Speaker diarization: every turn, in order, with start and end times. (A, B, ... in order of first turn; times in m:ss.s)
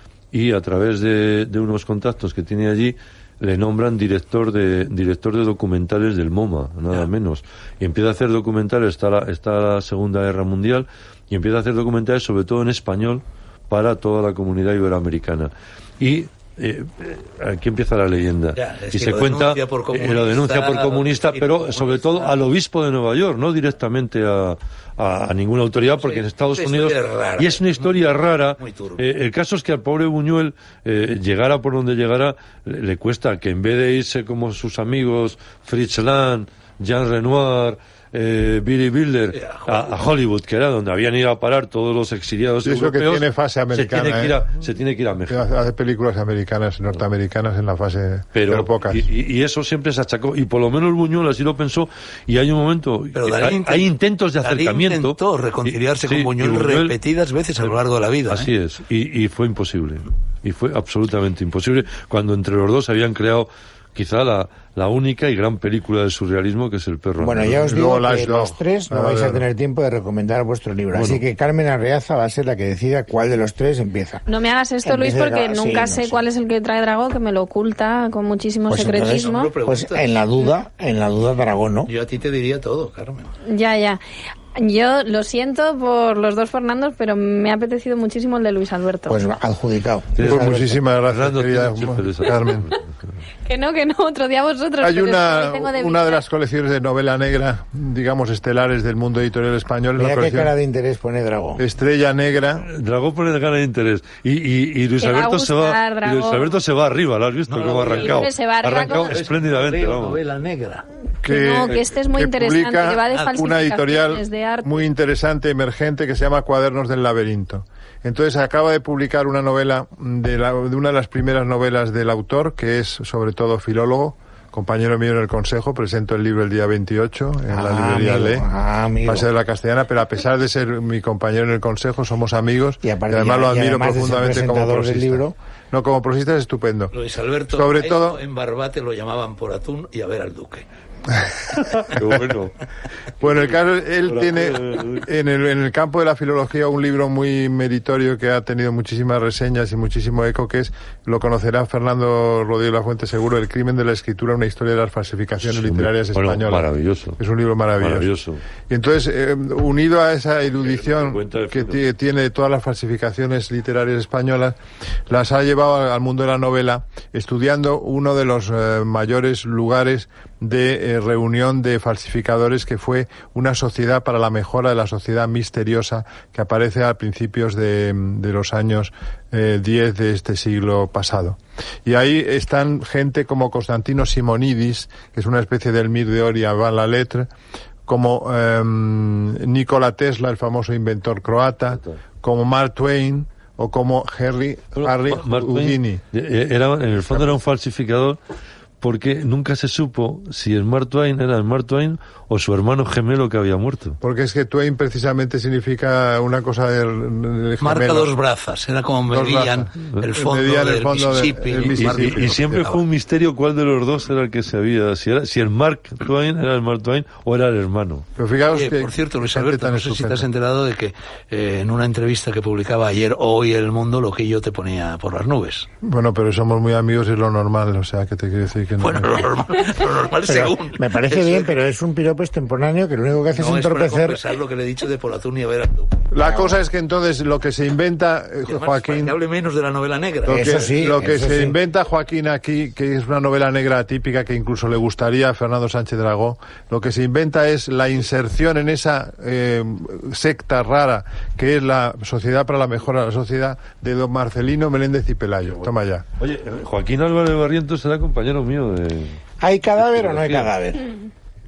0:00.3-0:45.5 A
0:18.6-0:22.4 B
0:26.0-0:28.0 B
0:28.6-0:29.0 B
0:39.3-0:40.1 B
0:42.6-0:44.4 C
0:45.3-0:49.0 C
0:48.3-0:57.0 A
0:53.1-0:53.9 B
0:54.4-0:58.5 B
0:58.3-1:07.7 A
1:07.2-1:14.2 D
1:07.5-1:09.4 C
1:10.9-1:11.2 A
1:14.3-1:19.5 E
1:14.8-1:16.2 D
1:18.7-1:21.9 D
1:18.9-1:20.2 B
1:21.9-1:23.3 B
1:23.5-1:24.0 E
1:24.6-1:29.2 E
1:29.1-1:30.8 D
1:30.2-1:32.9 A
1:30.2-1:32.7 C
1:33.4-1:36.2 E
1:34.8-1:40.5 C
1:40.0-1:41.6 D
1:41.6-1:42.7 C
1:42.7-1:50.2 A
1:45.0-1:46.5 E
1:47.5-1:50.8 B
1:47.7-1:49.2 E
1:51.2-1:54.7 E
1:51.2-2:08.5 C
1:53.1-1:53.4 B
2:07.5-2:09.3 D
2:09.0-2:16.9 C
2:12.8-2:15.4 D
2:16.9-2:20.7 B
2:17.5-2:18.2 C
2:21.5-2:22.6 A
2:23.2-2:38.1 C
2:23.3-2:25.1 A
2:35.4-2:37.2 A
2:37.8-2:38.4 A
2:38.7-3:07.3 C
2:40.6-2:41.8 A
3:07.9-3:16.0 C
3:14.8-3:18.2 A
3:18.8-3:24.0 A
3:24.0-3:28.1 C
3:27.6-3:32.8 B
3:29.1-3:32.7 C
3:31.5-3:38.1 A
3:38.2-3:40.2 C
3:38.5-3:45.7 B
3:45.8-3:49.3 C
3:48.8-3:51.6 B
3:50.2-3:54.3 D
3:53.3-3:56.1 B
3:56.1-3:59.2 C
3:56.2-3:56.6 D
3:58.5-4:01.0 B
4:00.2-4:16.0 C
4:00.3-4:01.6 D
4:16.2-4:19.2 A
4:19.4-4:20.9 D
4:19.8-4:20.5 A